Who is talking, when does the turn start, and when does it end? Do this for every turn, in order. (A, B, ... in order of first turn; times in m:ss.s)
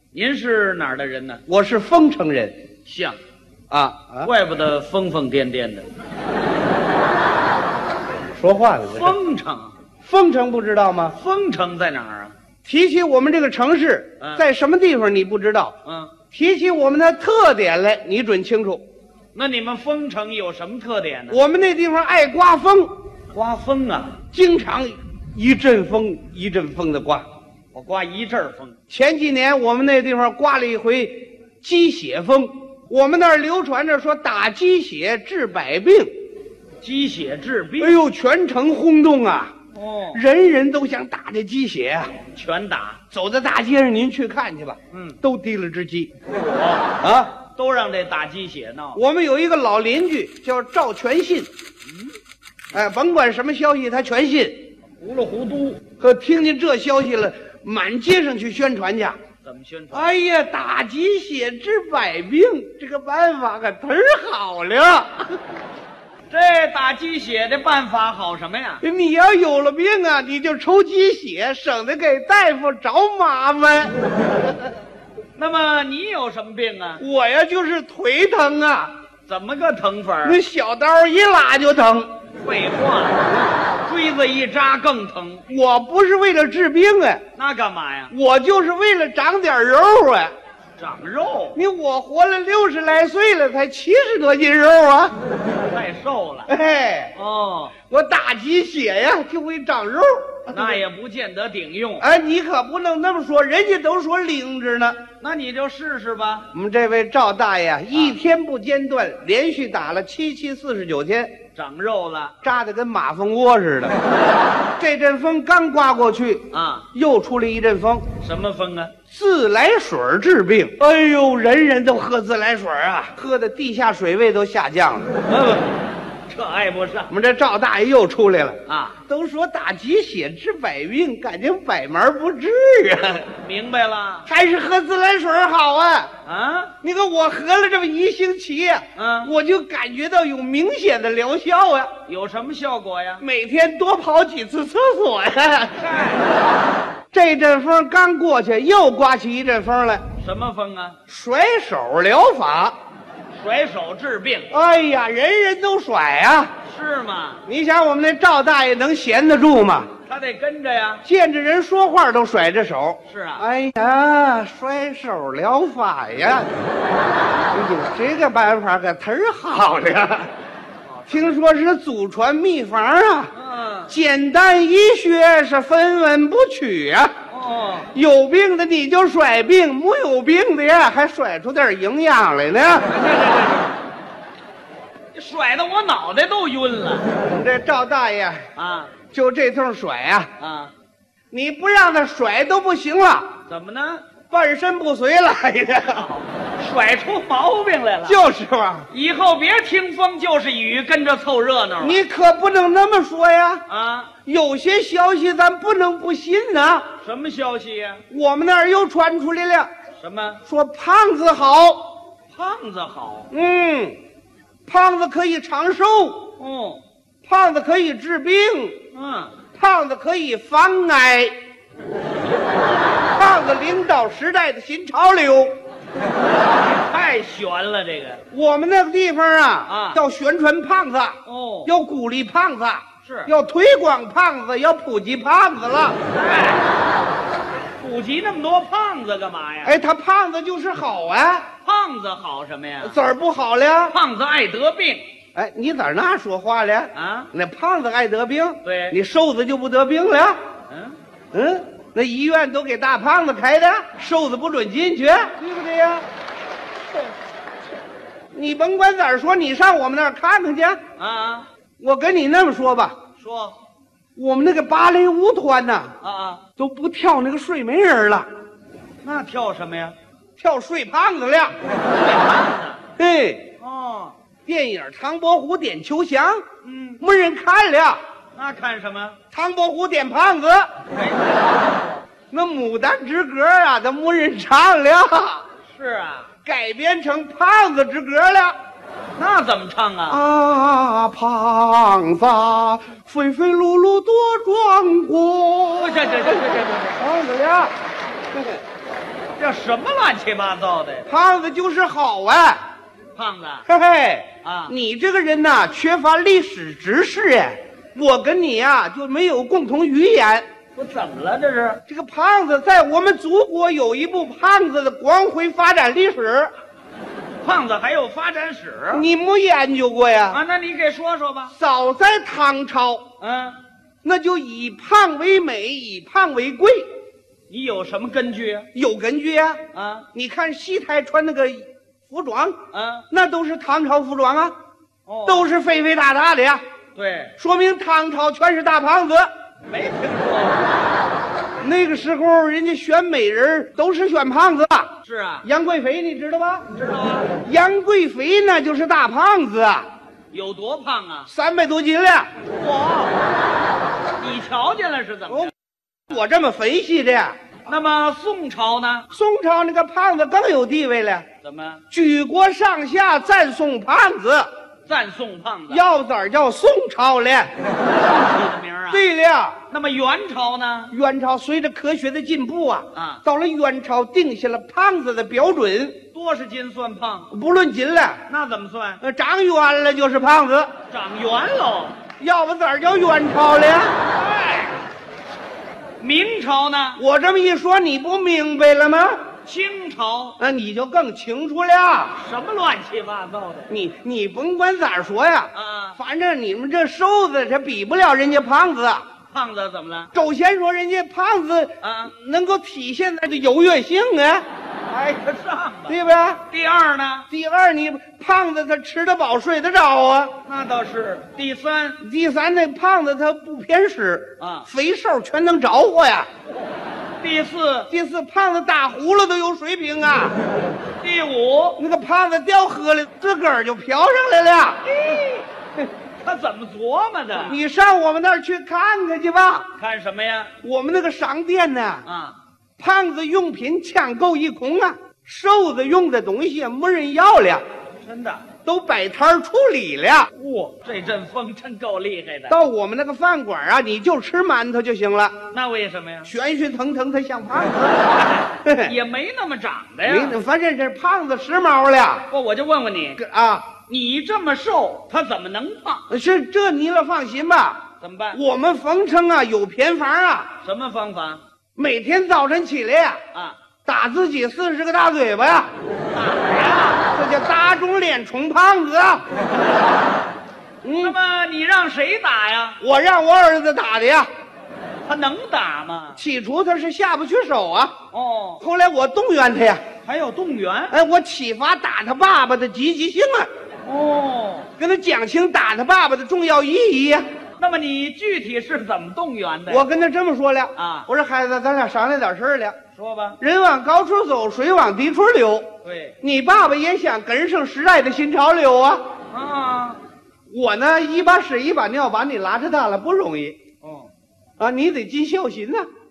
0:00.1-0:01.4 A
0:01.5-0:02.6 B
0:02.9-0:03.2 A
0:03.7-0:04.3 B
0:04.2-0:05.9 A
0:08.4-0:09.2 B
0:08.9-0:09.8 A
0:10.0-0:11.2 B
0:11.1-0:12.4 A
0:12.6-0:15.8 B
0:14.2-0:14.4 A
0:15.8-0:16.1 A
0:16.3-0:18.8 B
0:19.4-0:21.4 A
0:21.3-0:22.9 B
0:23.3-0:24.2 A
0:24.3-0:27.3 B
0:27.7-0:28.8 A
0:28.9-0:36.1 B
0:36.8-0:38.0 A
0:37.8-0:39.5 B
0:39.7-0:40.2 A
0:40.1-0:42.1 B
0:42.3-0:43.0 A
0:43.1-0:46.1 B
0:44.9-0:45.2 A
0:46.3-0:49.0 A
0:47.0-0:47.3 B
0:49.0-0:51.5 B
0:52.7-0:54.6 B
0:55.0-0:55.9 A
0:56.0-0:59.2 B
0:59.4-1:00.1 A
0:59.9-1:05.4 B
1:06.3-1:08.8 A
1:08.8-1:14.0 B
1:15.4-1:17.0 A
1:17.0-1:18.9 B
1:19.3-1:20.4 A
1:20.2-1:22.1 B
1:22.4-1:25.4 A
1:25.5-1:27.2 B
1:27.4-1:28.1 A
1:28.1-1:30.3 B
1:30.8-1:31.6 A
1:31.6-1:35.1 B
1:35.6-1:36.5 A
1:36.5-1:37.1 B
1:37.2-1:37.8 A
1:37.9-1:40.8 B
1:40.5-1:42.1 A
1:42.0-1:45.0 B
1:45.2-1:46.5 A
1:46.5-1:51.3 B
1:51.6-1:52.3 A
1:52.4-1:54.0 B
1:54.8-1:58.0 B
1:56.5-1:56.9 A
1:58.2-1:59.0 A
1:59.1-2:05.1 B
2:05.2-2:07.1 A
2:07.1-2:13.3 B
2:08.7-2:09.0 A
2:13.4-2:14.3 A
2:14.3-2:16.1 B
2:16.2-2:16.8 A
2:16.8-2:21.9 B
2:19.0-2:19.3 A
2:22.1-2:23.2 A
2:23.2-2:25.9 B
2:25.8-2:26.3 A
2:27.1-2:30.0 B
2:30.2-2:31.0 A
2:31.1-2:32.8 B
2:33.3-2:34.5 A
2:34.5-2:36.5 B
2:36.6-2:37.4 A
2:37.5-2:39.9 B
2:40.1-2:41.0 A
2:41.0-2:46.5 B
2:43.0-2:43.4 A
2:47.5-2:50.3 B
2:50.8-2:51.4 A
2:51.1-2:53.3 B
2:53.3-2:54.0 A
2:53.9-2:57.1 B
2:57.3-2:57.9 A
2:57.9-3:02.9 B
3:02.9-3:03.9 A
3:05.1-3:07.1 A
3:07.2-3:08.5 B
3:08.6-3:09.0 A
3:09.1-3:10.3 B
3:10.4-3:10.7 A
3:11.3-3:13.3 B
3:13.5-3:14.1 A
3:14.3-3:16.1 B
3:15.9-3:18.2 A
3:18.1-3:18.9 B
3:18.9-3:22.0 A
3:21.8-3:23.6 B
3:23.7-3:24.1 A
3:24.3-3:26.9 B
3:27.0-3:28.0 A
3:28.1-3:29.7 B
3:30.0-3:30.4 A
3:30.5-3:32.0 B
3:32.3-3:33.3 A
3:33.3-3:34.0 B
3:34.7-3:36.3 B
3:36.4-3:36.8 A
3:37.2-3:38.8 B
3:38.9-3:39.4 A
3:39.5-3:41.4 B
3:42.0-3:43.1 A
3:43.1-3:45.6 B
3:46.4-3:48.2 A
3:48.3-3:56.0 B
3:49.7-3:50.0 A
3:51.3-3:51.7 A
3:53.0-3:53.3 A
3:56.1-3:56.7 A
3:57.8-3:59.8 A
3:59.6-4:01.5 B
4:01.6-4:03.0 A
4:02.8-4:04.0 B
4:03.9-4:05.0 A
4:05.4-4:10.4 B
4:06.9-4:07.3 A
4:08.6-4:09.0 A
4:10.7-4:11.0 A
4:11.3-4:16.0 B
4:18.3-4:20.8 B
4:21.0-4:21.5 A
4:21.8-4:23.0 B
4:23.2-4:23.6 A
4:24.2-4:25.9 B
4:26.0-4:26.4 A
4:26.6-4:28.3 B
4:29.0-4:30.0 A
4:30.4-4:31.6 B
4:31.8-4:32.8 A
4:33.0-4:33.5 B
4:33.6-4:34.2 A
4:34.5-4:36.4 B
4:36.6-4:37.0 A
4:37.0-4:38.0 B
4:38.3-4:39.2 A
4:39.3-4:40.7 B
4:40.9-4:42.1 A
4:42.3-4:45.4 B
4:45.7-4:46.3 A
4:46.4-4:48.6 B
4:49.2-4:50.2 A
4:50.1-4:57.7 B
4:55.8-4:56.9 A
4:58.3-4:58.6 B
4:59.4-5:01.1 A
5:01.1-5:02.6 B
5:03.2-5:03.7 A
5:03.7-5:10.5 B
5:04.4-5:04.7 A
5:10.8-5:11.8 A
5:11.9-5:16.5 B
5:17.4-5:19.1 A
5:18.9-5:20.4 B
5:20.3-5:21.5 A
5:21.5-5:23.0 B
5:23.2-5:23.6 A
5:24.0-5:26.9 B
5:27.5-5:28.7 A
5:28.8-5:29.6 B
5:29.7-5:30.1 A
5:30.1-5:32.6 B
5:32.7-5:33.1 A
5:33.1-5:34.5 B
5:35.1-5:35.5 A
5:35.3-5:36.6 B
5:37.0-5:37.4 A
5:37.4-5:39.3 B
5:39.7-5:40.7 A
5:41.6-5:44.9 B
5:45.0-5:45.5 A
5:45.4-5:46.7 B
5:46.7-5:47.3 A
5:47.4-5:49.9 B
5:50.3-5:51.3 A
5:51.3-5:52.3 B
5:52.5-5:53.2 A
5:54.2-5:55.5 A
5:56.1-5:57.4 B
5:57.7-5:59.1 A
5:59.1-6:01.3 B
6:01.4-6:01.8 A
6:01.9-6:04.5 B
6:04.9-6:05.8 A
6:05.7-6:07.5 B
6:07.8-6:09.0 A
6:08.9-6:09.6 B
6:09.7-6:10.9 A
6:10.9-6:16.0 B
6:12.9-6:13.2 A
6:16.1-6:17.3 A
6:17.3-6:18.2 B
6:18.3-6:19.0 A
6:19.0-6:20.7 B
6:20.9-6:22.0 A
6:22.2-6:24.0 B
6:24.1-6:24.8 A
6:26.0-6:27.0 A
6:27.0-6:29.2 B
6:29.4-6:30.4 A
6:30.4-6:32.2 B
6:32.1-6:33.7 A
6:33.7-6:39.0 B
6:35.5-6:36.0 A
6:39.3-6:40.1 A
6:40.1-6:44.5 B
6:41.8-6:42.1 A
6:44.9-6:47.3 A
6:45.9-6:46.4 B
6:47.3-6:50.4 B
6:50.4-6:52.0 A
6:52.0-6:56.3 B
6:54.4-6:54.7 A
6:56.5-6:57.9 A
6:57.9-7:00.4 B
7:00.9-7:01.8 A
7:01.8-7:04.9 B
7:04.8-7:05.5 A
7:06.2-7:07.6 A
7:07.3-7:09.7 B
7:09.8-7:10.5 A
7:10.6-7:12.0 B
7:12.0-7:12.4 A
7:12.8-7:17.6 B
7:18.0-7:18.5 A
7:18.6-7:20.3 B
7:20.3-7:22.6 A
7:22.5-7:25.4 B
7:25.5-7:26.3 A
7:26.3-7:28.1 B
7:28.0-7:30.4 A
7:28.6-7:28.9 B
7:30.0-7:32.3 B
7:32.3-7:33.2 A
7:33.2-7:33.7 B
7:33.9-7:36.1 A
7:36.1-7:37.8 B
7:38.0-7:38.4 A
7:38.3-7:40.5 B
7:40.6-7:41.4 A
7:41.8-7:43.2 B
7:43.8-7:45.7 B
7:46.1-7:47.1 A
7:47.1-7:49.3 B
7:50.8-7:51.2 B
7:51.0-7:52.8 A
7:52.8-7:54.3 B
7:55.0-7:56.2 A
7:56.2-7:58.0 B
7:58.1-7:58.6 A
7:58.6-7:59.8 B
8:00.0-8:01.0 A
8:00.9-8:03.5 B
8:03.8-8:04.7 A
8:04.8-8:07.3 B
8:07.6-8:09.8 A
8:09.7-8:12.8 B
8:10.8-8:11.1 A
8:13.0-8:13.4 A
8:13.4-8:15.7 B
8:15.8-8:16.2 A
8:16.2-8:19.0 B
8:19.3-8:20.0 A
8:20.5-8:23.6 B
8:23.8-8:24.1 A
8:24.6-8:25.9 B